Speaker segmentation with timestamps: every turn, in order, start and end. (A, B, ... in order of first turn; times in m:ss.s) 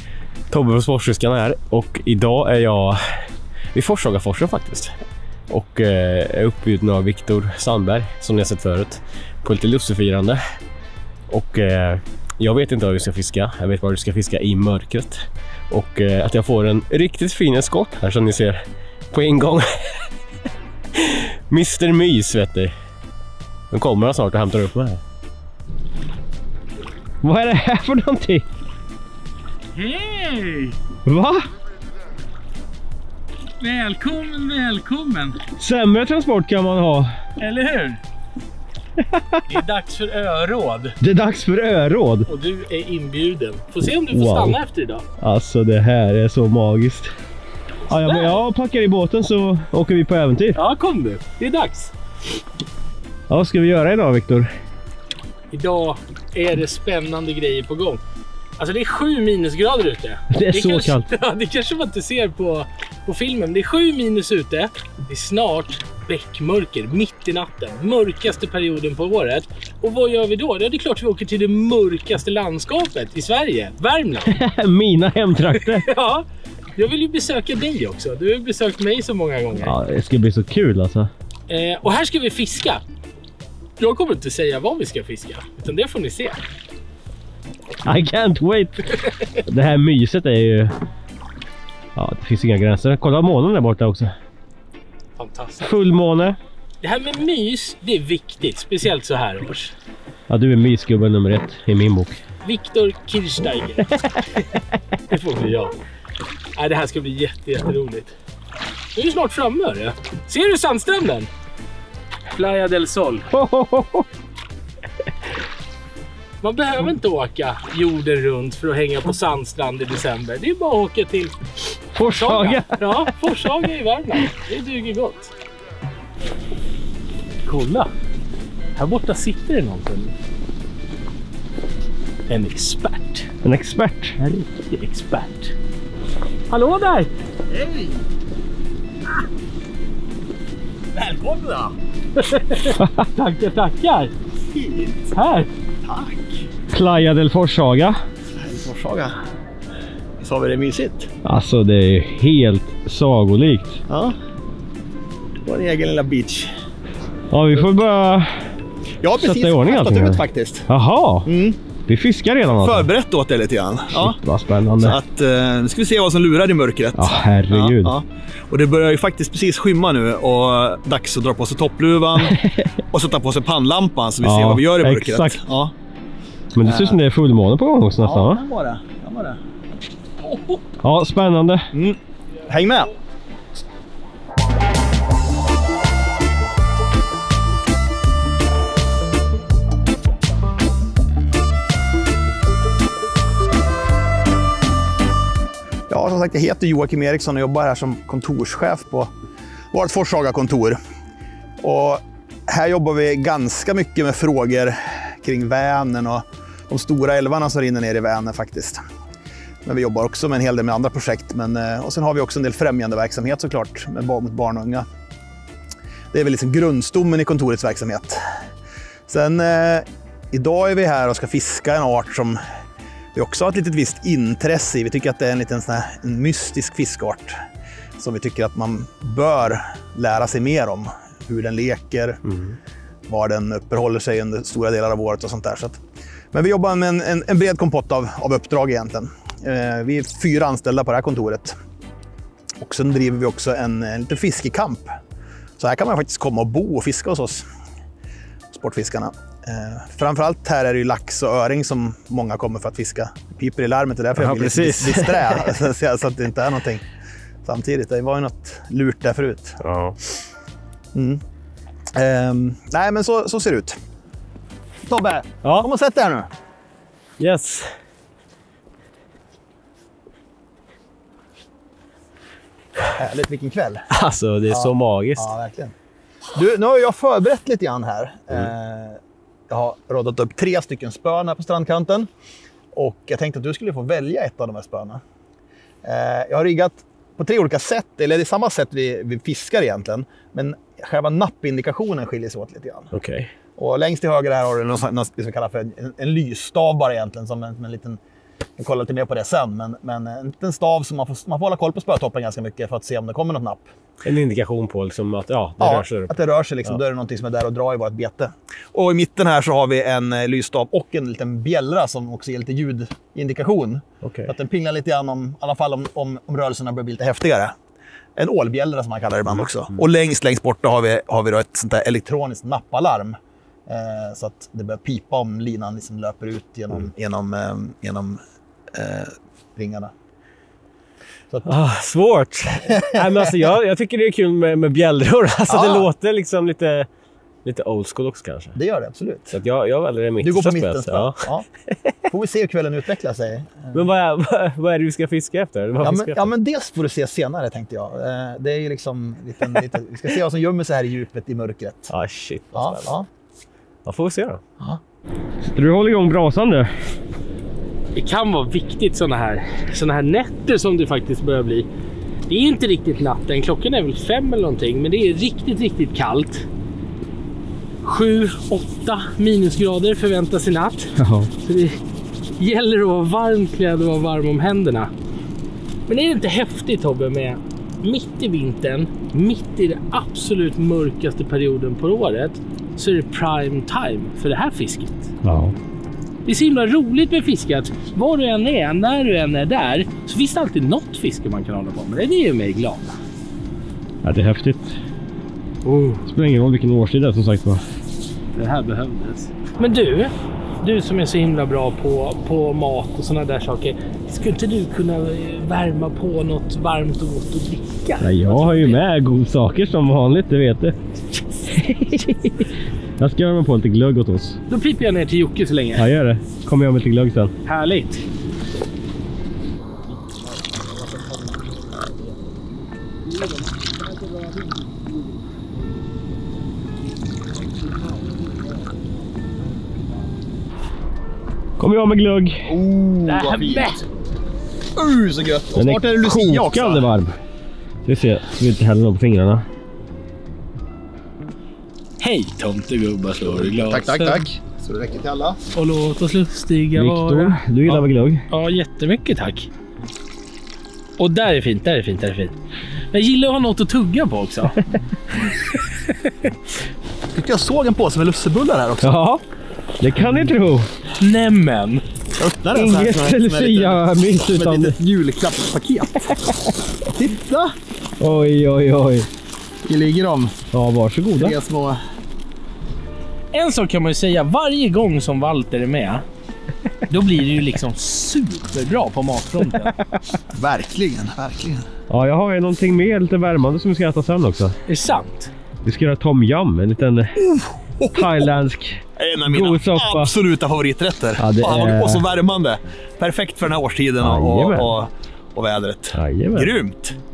0:00.5-0:03.0 A
0:03.7-0:04.9 A
0:05.5-0:10.4 A
0:11.3-0:18.6 A
0:19.1-0:19.7 A
0:21.0-0:22.7 A
0:23.7-0:25.0 A
0:27.2-0:28.4 A
0:29.7-0:30.8 B
0:31.0-0:31.5 A
0:33.6-0:35.4 B
0:35.6-0:37.1 A
0:37.4-0:38.0 B
0:39.1-0:39.4 A
0:39.5-0:41.0 B
0:41.0-0:42.3 A
0:42.3-0:45.0 B
0:44.1-0:44.6 A
0:45.2-0:47.1 A
0:47.9-0:50.6 A
0:47.9-0:48.4 B
0:50.5-0:51.9 B
0:53.3-0:54.5 A
0:55.5-0:58.0 B
0:58.6-1:14.4 B
1:00.3-1:01.0 A
1:14.2-1:15.9 A
1:15.5-1:16.2 B
1:16.8-1:19.8 B
1:19.6-1:21.1 A
1:21.5-1:22.8 B
1:23.8-1:26.4 B
1:27.8-1:30.7 A
1:32.0-1:34.1 A
1:35.2-1:35.7 B
1:35.6-1:36.4 A
1:36.8-1:39.7 B
1:40.3-1:42.2 A
1:42.4-1:44.0 B
1:45.1-1:45.7 B
1:46.6-1:48.1 B
1:48.9-1:51.3 B
1:52.3-1:53.3 B
1:53.3-1:54.0 A
1:56.4-2:01.4 B
2:01.9-2:03.1 A
2:02.1-2:05.3 B
2:07.4-2:07.9 B
2:08.8-2:10.1 B
2:12.3-2:13.3 B
2:13.4-2:14.2 A
2:14.2-2:15.5 B
2:16.5-2:17.1 B
2:17.5-2:17.9 C
2:20.9-2:21.7 C
2:22.2-2:24.1 B
2:22.8-2:23.0 A
2:24.5-2:25.1 C
2:25.1-2:25.5 B
2:25.8-2:26.4 C
2:26.7-2:28.0 A
2:28.4-2:29.1 C
2:30.2-2:31.1 C
2:31.2-2:33.8 A
2:33.9-2:34.2 C
2:35.4-2:36.5 C
2:37.3-2:38.2 A
2:39.0-2:40.7 C
2:39.2-2:41.3 A
2:41.2-2:41.6 C
2:41.9-2:42.9 A
2:42.6-2:44.2 C
2:43.9-2:45.0 A
2:44.8-2:55.7 C
2:47.0-2:47.9 A
2:52.2-2:52.7 A
2:54.2-2:55.4 A
2:56.5-2:58.4 A
2:56.6-2:57.0 C
2:58.0-2:59.4 C
3:00.2-3:00.6 B
3:00.8-3:01.7 A
3:01.7-3:02.9 C
3:15.9-3:19.1 C
3:19.7-3:20.8 C
3:21.6-3:28.8 C
3:29.6-3:34.8 C
3:36.1-3:38.2 C
3:39.1-3:42.4 C
3:43.1-3:47.4 C
3:48.0-3:52.2 C
3:53.1-3:55.8 C
3:56.3-4:01.6 C
4:02.6-4:04.9 C
4:05.6-4:07.4 C
4:08.5-4:16.8 C
4:14.2-4:15.6 A
4:17.4-4:19.6 C
4:19.6-4:19.9 A
4:20.9-4:21.2 C
4:21.9-4:23.8 C
4:24.8-4:26.3 C
4:27.2-4:27.7 A
4:33.0-4:33.9 C
4:33.9-4:35.3 A
4:34.5-4:35.7 C
4:36.3-4:42.1 C
4:42.7-4:45.0 C
4:45.8-4:52.9 C
4:52.9-4:53.3 A
4:53.6-4:58.0 C
4:58.6-5:03.7 C
5:04.0-5:06.2 A
5:05.6-5:17.5 C
5:14.0-5:14.3 A
5:18.2-5:23.1 C
5:23.7-5:28.2 C
5:28.7-5:29.9 C
5:31.4-5:36.9 A
5:35.5-5:35.9 C
5:37.4-5:38.6 A
5:38.5-5:39.4 C
5:39.3-5:41.3 A
5:40.2-5:41.4 C
5:42.1-5:43.8 C
5:43.7-5:46.3 A
5:45.8-5:51.9 C
5:51.9-5:52.9 A
5:52.5-5:53.1 C
5:53.8-5:54.4 A
5:55.4-5:56.7 A
5:57.9-6:01.7 B
6:02.3-6:06.5 B
6:07.8-6:11.8 B
6:11.0-6:11.3 A
6:12.4-6:14.9 B
6:15.9-6:25.1 B
6:25.2-6:25.5 A
6:26.2-6:32.9 B
6:34.0-6:34.7 A
6:35.6-6:36.0 B
6:36.0-6:37.6 A
6:38.4-6:48.8 B
6:48.0-6:50.7 A
6:51.5-6:52.4 A
6:53.0-6:54.4 A
6:54.5-6:55.9 B
6:55.8-6:57.3 A
6:57.4-6:58.0 B
7:11.6-7:12.5 A
7:12.4-7:13.7 C
7:13.0-7:13.8 B
7:14.7-7:16.9 C
7:15.5-7:17.2 A
7:17.8-7:19.4 A
7:22.0-7:24.3 B
7:23.3-7:25.4 C
7:25.5-7:29.5 B
7:26.8-7:28.2 A
7:31.0-7:32.4 B
7:32.9-7:34.6 B
7:35.2-7:36.3 B
7:37.1-7:39.0 C
7:38.8-7:39.2 A
7:39.8-7:40.7 A
7:40.0-7:40.3 C
7:41.0-7:41.8 B
7:42.2-7:46.3 C
7:42.5-7:44.8 A
7:46.8-7:47.5 C
7:48.0-7:49.1 A
7:49.6-7:50.4 C
7:50.5-7:51.4 A
7:51.2-7:51.8 C
7:53.3-7:56.0 B
7:56.9-7:59.7 B
8:00.3-8:01.6 C
8:01.9-8:04.5 A
8:04.7-8:05.3 B
8:05.6-8:07.2 A
8:07.2-8:08.3 C
8:07.9-8:10.1 A
8:09.0-8:17.0 C
8:11.2-8:12.0 A
8:14.0-8:14.7 A
8:15.9-8:16.5 A